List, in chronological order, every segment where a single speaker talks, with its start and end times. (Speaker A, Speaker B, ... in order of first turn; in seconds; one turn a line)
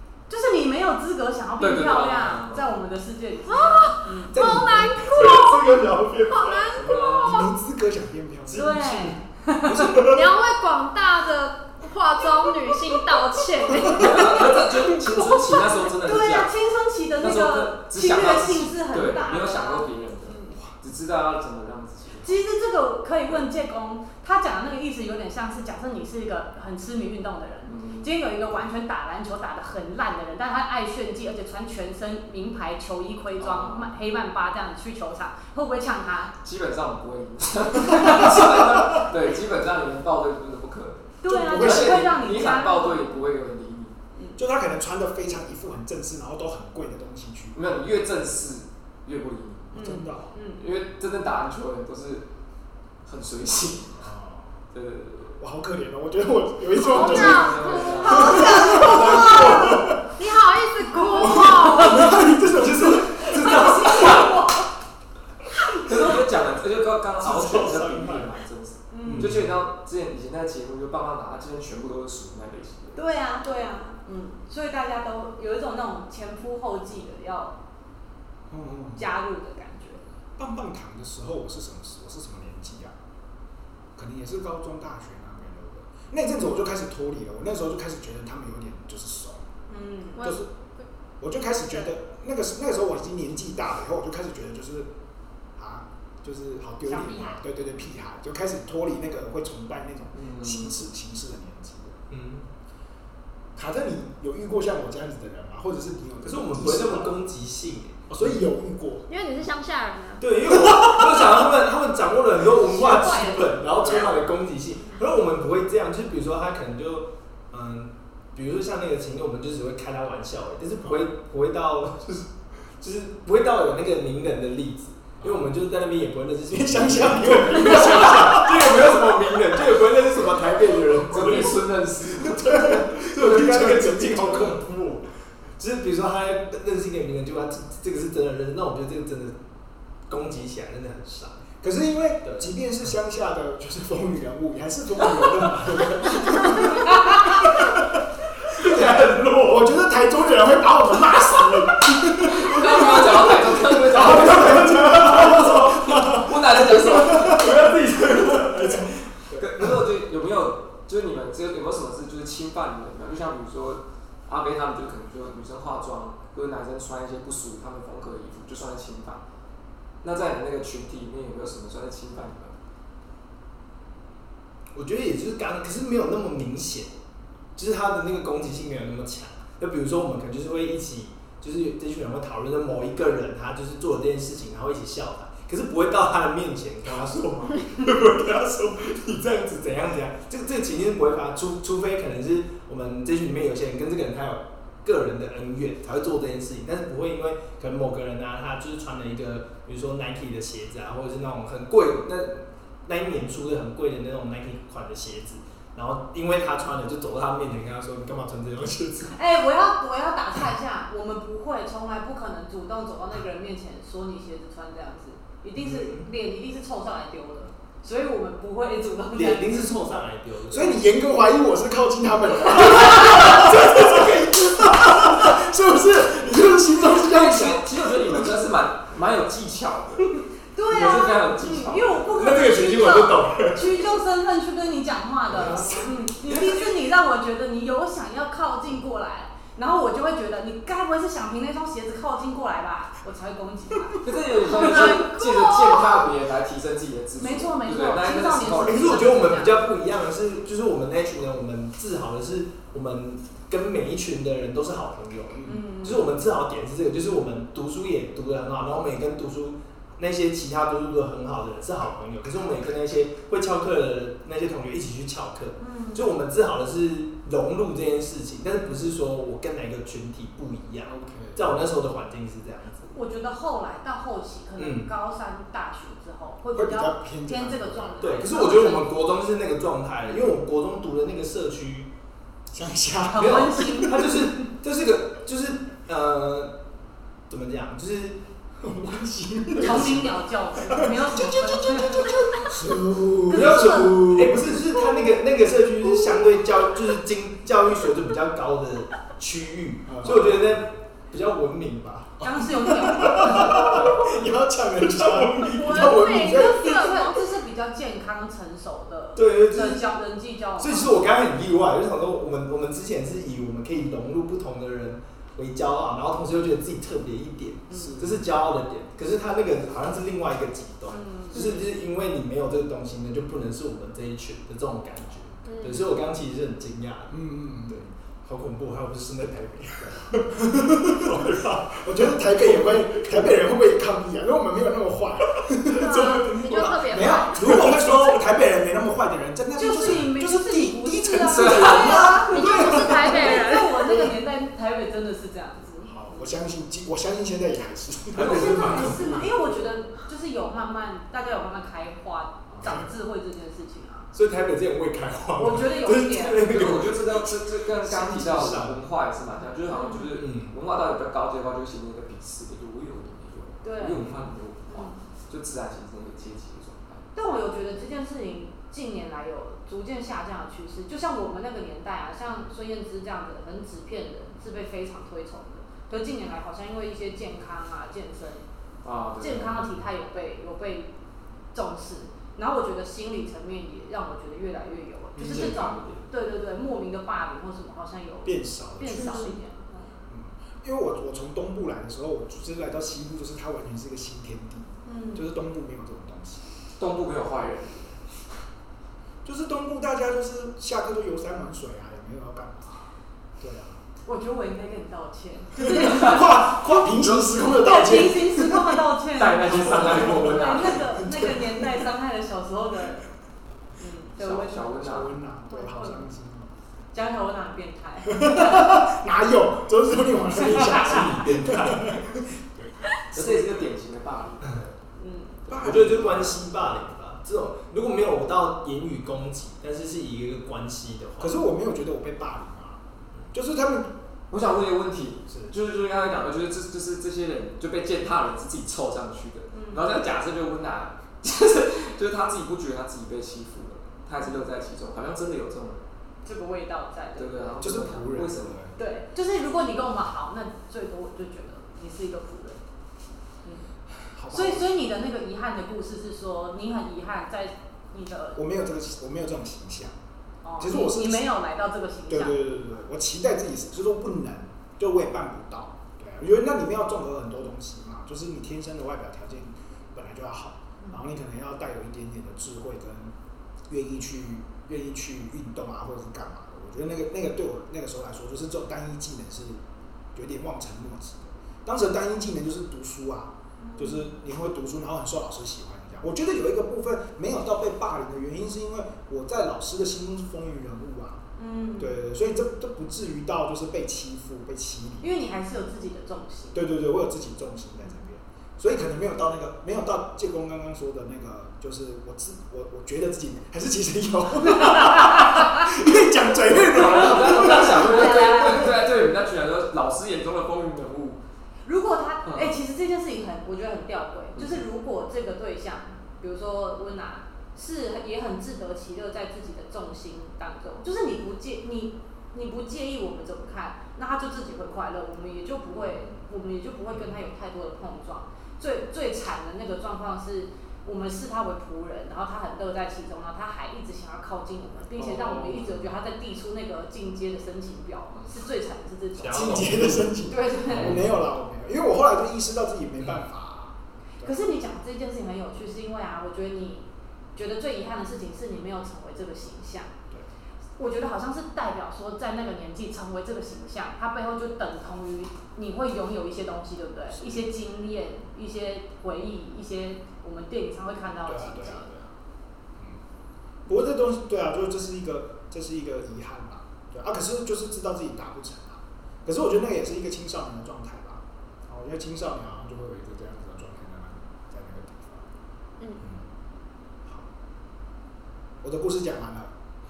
Speaker A: 0.3-4.4
Speaker B: 1.6-2.8
Speaker C: 3.5-7.5
Speaker D: 4.3-9.1
Speaker E: 4.3-6.9
Speaker A: 8.5-10.1
Speaker D: 9.7-10.3
Speaker C: 9.9-15.6
Speaker D: 13.6-14.2
Speaker B: 13.8-16.5
Speaker A: 16.0-20.6
Speaker B: 17.2-22.3
Speaker A: 22.2-36.4
Speaker B: 27.7-28.1
Speaker B: 33.4-33.9
Speaker B: 36.4-44.0
Speaker A: 37.9-38.3
Speaker A: 41.2-43.2
Speaker D: 41.3-42.1
Speaker D: 44.4-47.6
Speaker B: 47.5-49.8
Speaker A: 49.7-50.6
Speaker D: 49.7-50.3
Speaker B: 50.6-52.3
Speaker B: 53.0-54.0
Speaker D: 54.0-54.6
Speaker B: 54.7-55.4
Speaker D: 55.4-60.0
Speaker C: 56.8-62.2
Speaker B: 56.9-58.5
Speaker A: 58.0-59.8
Speaker E: 59.0-59.4
Speaker A: 60.9-62.2
Speaker D: 61.1-64.3
Speaker A: 63.1-64.7
Speaker E: 63.2-63.8
Speaker B: 65.8-73.0
Speaker D: 67.2-68.3
Speaker A: 68.9-69.3
Speaker D: 69.1-69.4
Speaker E: 69.1-69.5
Speaker A: 73.0-77.6
Speaker D: 78.5-79.1
Speaker A: 79.0-80.1
Speaker D: 80.4-83.0
Speaker D: 84.0-89.5
Speaker A: 89.7-90.2
Speaker C: 90.2-90.5
Speaker D: 90.2-90.5
Speaker D: 91.2-94.9
Speaker D: 95.6-102.0
Speaker A: 96.8-97.4
Speaker B: 100.1-100.9
Speaker E: 102.1-102.5
Speaker D: 103.6-107.2
Speaker E: 106.2-108.4
Speaker D: 108.1-109.1
Speaker C: 109.1-110.3
Speaker E: 110.2-122.3
Speaker A: 112.4-114.1
Speaker E: 122.8-131.6
Speaker D: 126.5-128.8
Speaker B: 128.4-129.2
Speaker B: 131.1-133.7
Speaker D: 132.6-135.0
Speaker E: 132.6-134.9
Speaker E: 135.6-139.4
Speaker E: 140.1-141.5
Speaker D: 141.6-147.9
Speaker E: 142.2-142.6
Speaker E: 148.5-149.7
Speaker D: 149.4-156.2
Speaker B: 152.2-158.7
Speaker E: 154.2-156.2
Speaker D: 156.8-157.6
Speaker E: 157.0-159.1
Speaker D: 158.5-158.9
Speaker B: 159.3-169.2
Speaker B: 170.0-172.6
Speaker E: 174.7-176.9
Speaker E: 177.6-209.2
Speaker A: 209.1-219.7
Speaker E: 215.6-216.1
Speaker E: 219.1-220.8
Speaker D: 220.5-227.7
Speaker E: 223.4-223.9
Speaker B: 226.9-232.6
Speaker A: 230.5-245.2
Speaker E: 232.2-233.9
Speaker E: 235.3-236.6
Speaker D: 235.4-235.8
Speaker B: 244.0-249.2
Speaker C: 245.0-245.8
Speaker A: 247.2-249.6
Speaker E: 248.6-273.0
Speaker A: 255.4-256.1
Speaker A: 265.6-266.1
Speaker D: 270.9-271.5
Speaker A: 272.9-278.9
Speaker E: 274.6-274.9
Speaker D: 276.5-278.1
Speaker E: 278.0-281.9
Speaker D: 282.5-284.1
Speaker A: 283.1-284.5
Speaker E: 283.1-286.6
Speaker E: 287.3-288.2
Speaker D: 288.6-290.1
Speaker A: 289.5-292.1
Speaker E: 289.6-290.0
Speaker D: 290.7-294.4
Speaker A: 293.3-294.3
Speaker E: 293.3-304.2
Speaker D: 299.9-300.5
Speaker A: 302.2-303.9
Speaker D: 302.8-306.9
Speaker E: 304.8-305.9
Speaker C: 305.5-307.2
Speaker A: 306.1-311.1
Speaker E: 309.1-309.9
Speaker E: 310.6-333.3
Speaker A: 317.7-318.0
Speaker D: 317.8-318.2
Speaker A: 320.9-321.7
Speaker C: 325.5-325.9
Speaker D: 327.1-327.9
Speaker D: 329.9-331.3
Speaker D: 331.8-343.4
Speaker C: 335.7-337.6
Speaker E: 336.5-336.8
Speaker E: 337.4-338.1
Speaker A: 339.6-346.4
Speaker B: 341.3-342.0
Speaker C: 342.3-344.1
Speaker D: 345.8-348.5
Speaker E: 348.1-349.5
Speaker A: 348.1-354.1
Speaker E: 354.1-358.8
Speaker A: 355.4-356.5
Speaker B: 356.5-367.1
Speaker A: 359.7-360.1
Speaker E: 360.1-360.6
Speaker A: 363.6-364.0
Speaker E: 363.9-364.3
Speaker A: 364.7-365.0
Speaker A: 367.1-378.4
Speaker B: 378.8-379.6
Speaker A: 379.2-380.9
Speaker A: 381.5-390.0
Speaker B: 385.2-386.0
Speaker D: 385.3-385.6
Speaker D: 388.2-389.4
Speaker C: 389.0-389.3
Speaker D: 390.1-396.4
Speaker A: 394.9-395.3
Speaker B: 396.8-398.0
Speaker D: 399.2-403.8
Speaker A: 404.1-406.7
Speaker D: 405.6-408.8
Speaker B: 406.9-407.5
Speaker A: 407.4-413.1
Speaker B: 409.1-410.9
Speaker D: 409.5-411.6
Speaker A: 413.8-414.8
Speaker B: 414.2-415.1
Speaker D: 414.7-416.5
Speaker A: 415.5-416.1
Speaker A: 416.9-418.8
Speaker D: 418.1-423.3
Speaker A: 420.4-421.0
Speaker E: 420.4-422.2
Speaker B: 423.1-424.7
Speaker A: 425.0-425.5
Speaker D: 425.5-426.4
Speaker E: 425.5-431.4
Speaker D: 431.2-433.9
Speaker B: 434.3-445.8
Speaker A: 439.5-439.9
Speaker A: 446.2-447.5
Speaker B: 447.2-448.6
Speaker D: 447.6-448.8
Speaker A: 448.8-452.6
Speaker A: 453.4-453.7
Speaker D: 454.1-454.7
Speaker A: 454.3-458.4
Speaker D: 458.4-460.0
Speaker A: 460.4-462.5
Speaker D: 460.6-461.3
Speaker D: 462.1-473.1
Speaker D: 473.7-479.6
Speaker D: 480.1-491.2
Speaker A: 483.6-484.1
Speaker A: 491.4-492.0
Speaker D: 491.8-495.1
Speaker A: 495.0-496.6
Speaker D: 496.5-508.7
Speaker A: 504.5-505.4
Speaker B: 506.7-511.2
Speaker A: 506.9-508.7
Speaker A: 511.6-539.7
Speaker B: 512.2-512.5
Speaker B: 514.4-514.6
Speaker B: 525.7-526.2
Speaker B: 535.0-536.0
Speaker E: 539.2-541.2
Speaker D: 539.3-544.3
Speaker A: 540.2-541.0
Speaker A: 544.2-549.9
Speaker A: 550.8-561.9
Speaker D: 561.2-562.1
Speaker D: 563.7-575.3
Speaker D: 578.6-579.5